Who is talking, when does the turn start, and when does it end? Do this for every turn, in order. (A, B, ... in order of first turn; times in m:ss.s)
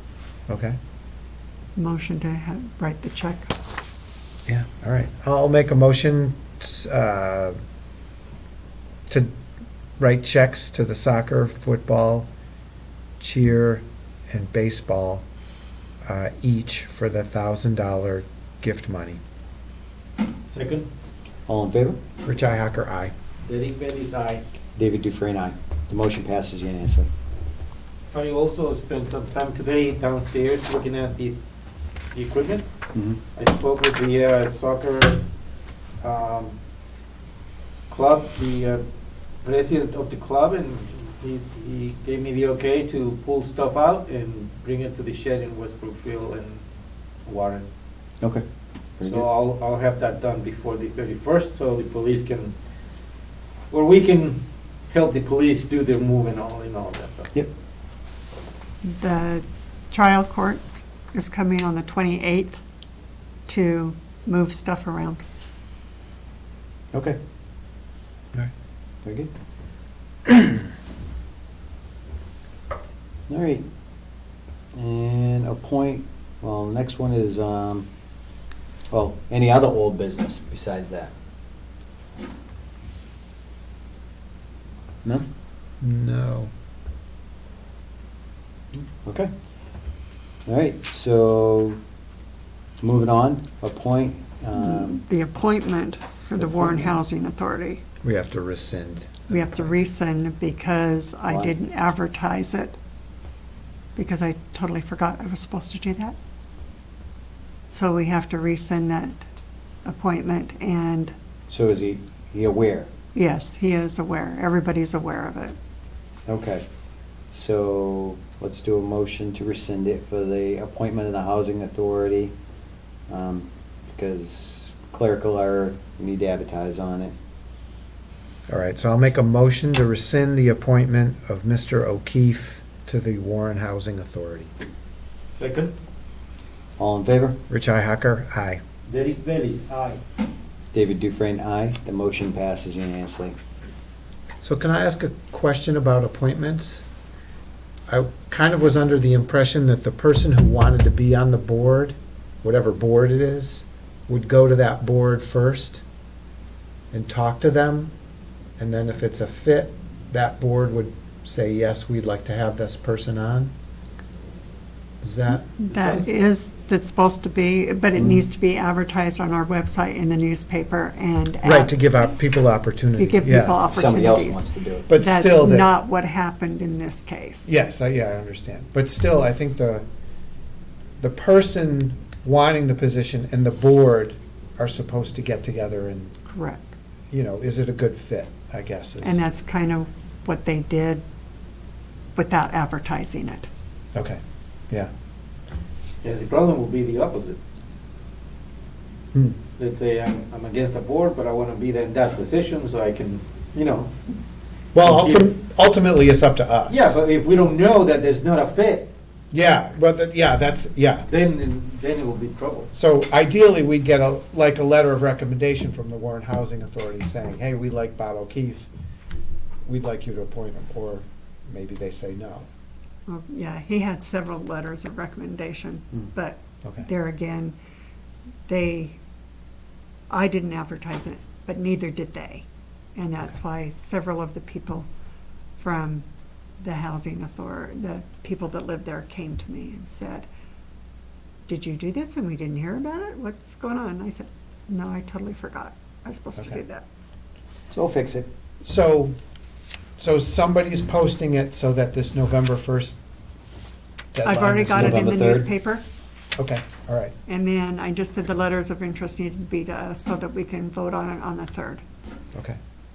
0:00.5-0:00.8 A
0:01.8-0:03.6 B
0:04.4-0:07.6 A
0:10.0-0:12.3 A
0:13.2-0:15.2 A
0:16.0-0:19.2 A
0:20.4-0:20.9 C
0:21.5-0:22.0 D
0:22.2-0:23.1 A
0:23.4-0:24.5 C
0:24.8-0:27.1 D
0:28.1-0:31.4 C
0:32.1-0:32.6 C
0:33.3-0:35.2 C
0:36.0-0:36.6 C
0:37.9-0:38.8 C
0:39.4-0:46.6 C
0:47.2-0:47.7 C
0:49.0-0:49.2 D
0:49.0-0:52.5 C
0:53.7-0:57.3 C
0:58.8-1:02.6 B
1:03.5-1:05.2 B
1:06.9-1:07.2 D
1:09.0-1:09.3 D
1:13.3-1:13.6 D
1:14.7-1:17.9 D
1:18.9-1:21.1 D
1:25.8-1:26.5 A
1:28.7-1:29.3 D
1:30.4-1:31.8 D
1:32.8-1:35.0 D
1:34.5-1:37.8 B
1:36.4-1:37.0 D
1:38.0-1:39.6 A
1:39.3-1:42.8 B
1:41.3-1:41.5 D
1:43.9-1:46.2 B
1:47.7-1:49.3 B
1:49.8-1:51.1 B
1:51.5-1:52.9 D
1:53.1-1:55.6 B
1:56.3-1:56.6 D
1:57.3-2:02.3 D
2:03.1-2:07.1 D
2:08.5-2:14.5 A
2:15.3-2:15.7 C
2:16.8-2:17.4 D
2:17.5-2:18.6 A
2:18.9-2:20.0 C
2:20.7-2:23.4 D
2:24.4-2:26.8 A
2:27.9-2:35.8 A
2:36.9-2:37.9 A
2:38.6-2:43.5 A
2:45.0-2:45.4 A
2:45.3-2:51.7 B
2:48.0-2:48.2 D
2:51.4-2:53.6 A
2:53.0-2:57.5 B
2:53.7-2:54.9 D
2:54.9-2:55.7 A
2:57.4-2:59.8 A
3:01.0-3:06.1 A
3:06.3-3:06.7 B
3:07.1-3:09.2 A
3:09.0-3:11.0 B
3:12.1-3:13.5 B
3:13.9-3:14.9 A
3:16.0-3:17.4 C
3:19.1-3:19.4 A
3:19.6-3:23.9 C
3:24.7-3:26.9 A
3:24.8-3:25.3 C
3:26.7-3:28.9 C
3:29.3-3:31.1 A
3:31.0-3:32.7 C
3:32.7-3:38.7 A
3:39.6-3:42.5 A
3:43.1-3:47.6 B
3:48.5-3:49.0 B
3:50.1-3:54.9 B
3:55.6-3:56.0 B
3:56.6-4:00.3 B
4:01.5-4:06.8 B
4:07.7-4:08.3 D
4:08.6-4:09.2 A
4:10.0-4:13.0 A
4:14.1-4:15.0 A
4:14.2-4:15.8 B
4:14.7-4:15.5 D
4:16.4-4:17.1 A
4:17.3-4:21.8 B